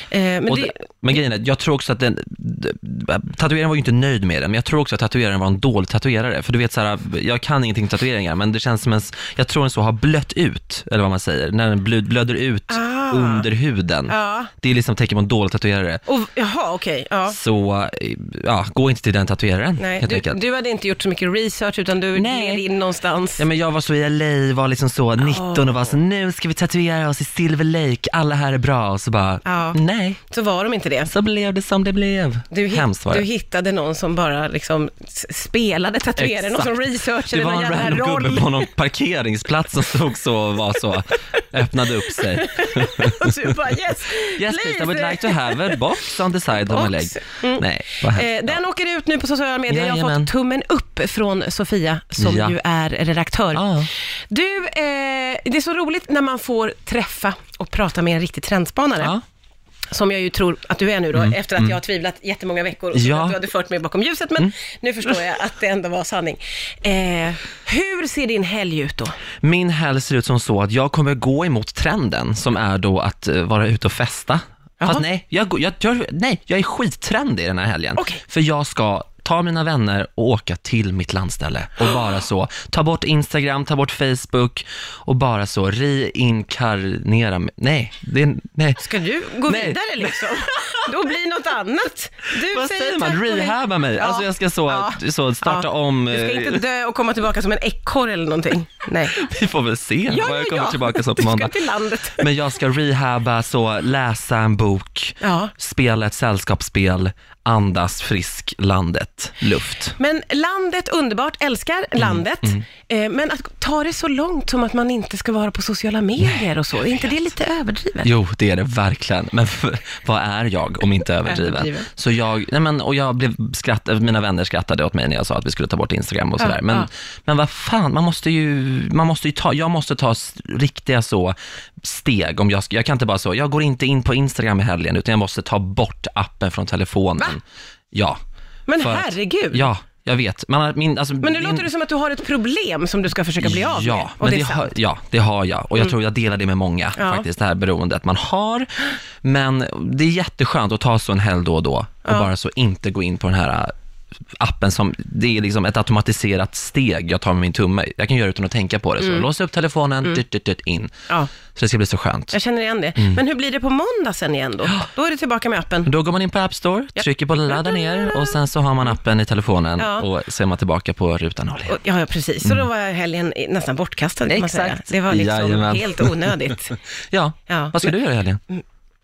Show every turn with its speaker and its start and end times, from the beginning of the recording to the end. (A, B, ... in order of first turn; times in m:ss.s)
0:00.1-0:00.8 A
0:00.5-0:16.0 B
0:12.7-0:13.5 A
0:14.1-0:14.5 A
0:16.1-0:17.4 A
0:17.3-0:20.4 B
0:19.8-0:23.4 A
0:22.2-0:22.6 B
0:23.4-0:30.2 B
0:25.2-0:26.0 A
0:29.4-0:31.1 A
0:31.1-0:33.3 B
0:32.5-0:38.7 A
0:36.2-0:43.6 B
0:42.3-0:45.8 A
0:44.2-0:48.6 B
0:46.7-0:59.2 A
0:49.7-0:50.3 B
0:52.2-0:52.6 B
0:53.5-0:53.9 B
0:59.9-1:09.2 A
1:01.1-1:01.8 B
1:02.9-1:03.4 B
1:09.4-1:28.8 B
1:18.0-1:18.2 A
1:28.8-1:39.2 A
1:29.4-1:30.5 B
1:32.4-1:36.6 B
1:39.1-1:41.6 B
1:40.1-1:42.3 A
1:42.2-1:50.0 B
1:45.2-1:45.5 A
1:50.0-1:58.1 A
1:52.0-1:52.6 B
1:58.0-2:18.2 B
2:01.3-2:01.9 A
2:06.4-2:06.9 A
2:18.7-2:19.7 A
2:18.8-2:21.7 B
2:21.2-2:24.7 A
2:23.4-2:28.7 B
2:27.0-2:27.3 A
2:29.2-2:33.7 B
2:34.4-2:40.9 B
2:39.0-2:39.3 A
2:41.5-2:42.3 B
2:42.3-2:45.9 A
2:45.8-2:51.8 B
2:47.0-2:48.4 A
2:49.8-2:50.1 A
2:51.7-2:56.8 A
2:54.3-2:56.4 B
2:57.1-2:58.4 B
2:57.5-2:58.0 A